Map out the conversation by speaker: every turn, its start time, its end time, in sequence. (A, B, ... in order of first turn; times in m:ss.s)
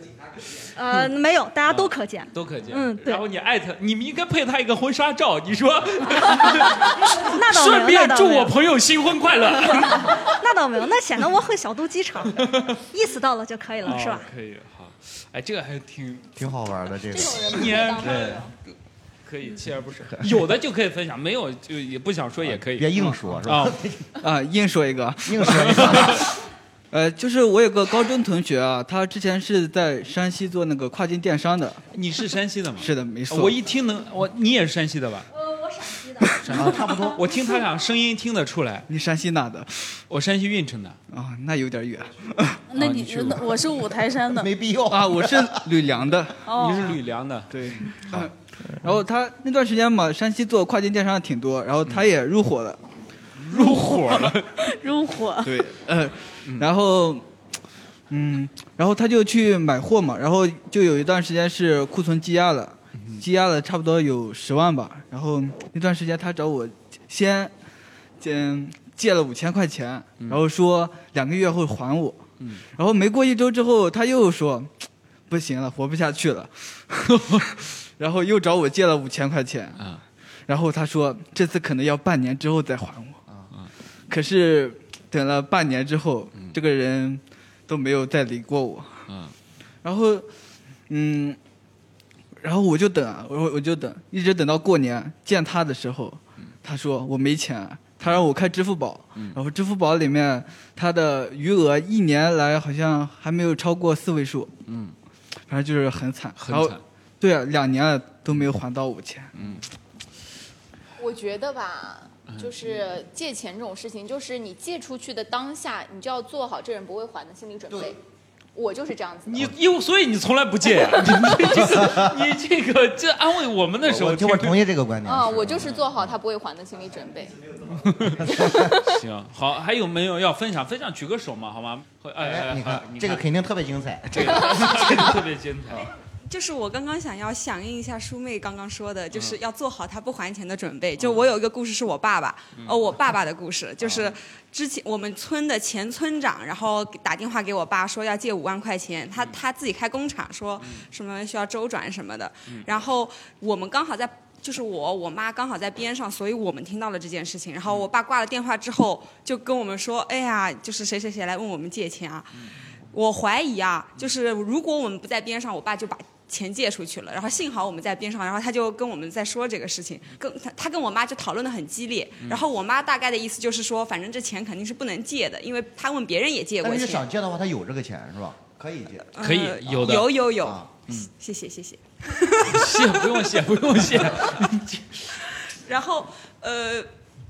0:00.7-0:03.2 A
0:01.7-0:10.3 B
0:07.2-0:08.5 A
0:09.7-0:14.3 A
0:12.3-0:12.8 B
0:13.8-0:16.4 B
0:16.4-0:18.4 C
0:17.3-0:18.3 A
0:17.3-0:18.5 B
0:17.8-0:18.1 D
0:19.2-0:23.8 B
0:22.5-0:24.1 C
0:24.2-0:26.0 E
0:25.2-0:26.3 C
0:25.4-0:26.2 B
0:26.9-0:31.8 E
0:31.9-0:35.3 B
0:32.8-0:33.6 E
0:35.4-0:36.3 A
0:36.4-0:38.9 B
0:36.5-0:37.2 C
0:38.9-0:40.0 E
0:40.1-0:41.0 B
0:41.1-0:42.6 E
0:42.7-0:44.5 F
0:42.8-0:43.5 B
0:44.4-0:45.6 C
0:44.9-0:46.9 E
0:46.5-0:46.9 F
0:46.5-0:48.2 B
0:47.5-0:52.8 E
0:53.4-0:54.5 B
0:53.5-0:55.6 F
0:55.4-0:57.2 E
0:56.4-0:56.7 B
0:58.1-1:07.5 E
1:08.2-1:12.2 E
1:12.8-1:19.8 E
1:17.1-1:17.4 B
1:19.8-1:20.0 B
1:20.5-1:23.2 E
1:24.1-1:29.0 E
1:29.1-1:29.3 B
1:29.8-1:30.3 E
1:30.9-1:31.4 E
1:32.4-1:44.5 E
1:44.7-1:44.9 B
1:45.5-1:49.3 E
1:46.4-1:46.8 B
1:49.3-1:49.6 B
1:51.0-1:58.0 D
1:58.6-1:59.5 D
1:59.3-2:04.6 B
2:01.5-2:02.1 C
2:03.8-2:05.6 C
2:05.0-2:07.4 D
2:05.6-2:06.1 B
2:07.6-2:08.7 C
2:07.8-2:13.2 B
2:08.5-2:08.9 D
2:12.2-2:15.9 C
2:14.1-2:15.9 B
2:16.3-2:57.1 G
2:19.1-2:19.4 B
2:21.0-2:21.3 B
2:23.8-2:24.2 B
2:52.2-2:52.4 B
2:56.6-3:00.7 C
2:59.1-3:03.0 G
2:59.2-3:00.2 B
3:02.4-3:05.0 B
3:05.6-3:06.9 G